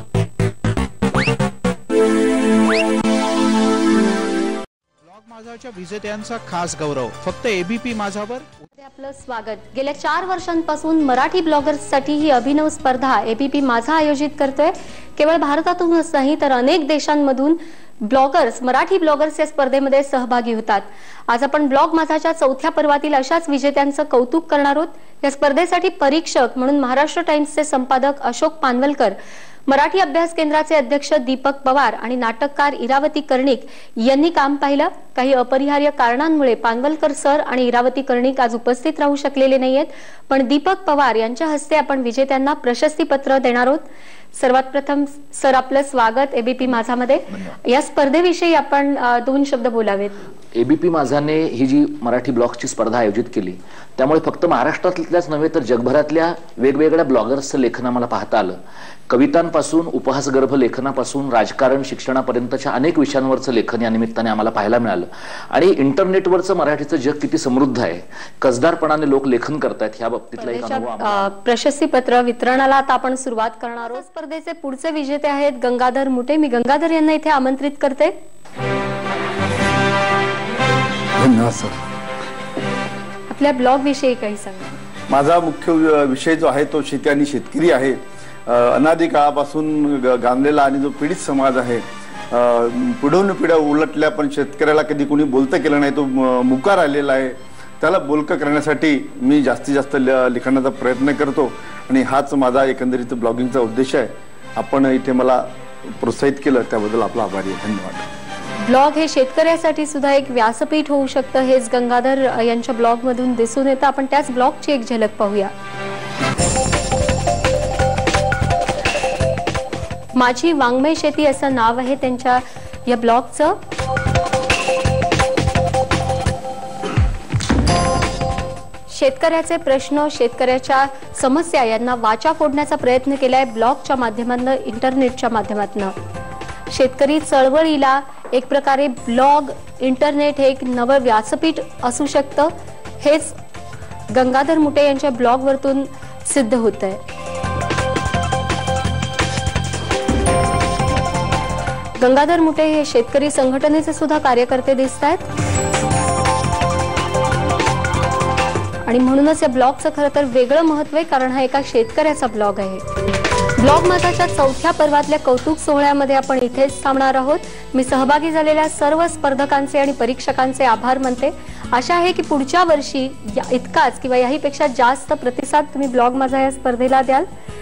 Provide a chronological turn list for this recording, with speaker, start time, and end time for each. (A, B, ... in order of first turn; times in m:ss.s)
0:05.0-0:08.7 A
0:08.7-0:50.2 B
0:50.6-0:58.6 C
0:59.1-1:11.3 C
1:10.4-1:18.1 B
1:21.2-1:21.8 D
1:23.3-1:24.8 B
1:25.1-1:48.1 D
1:48.6-1:55.5 B
2:00.1-2:03.6 B
2:08.9-2:16.0 B
2:16.7-2:23.4 B
2:24.1-2:27.0 B
2:32.0-2:35.2 B
2:38.8-2:42.8 B
2:43.6-2:57.3 B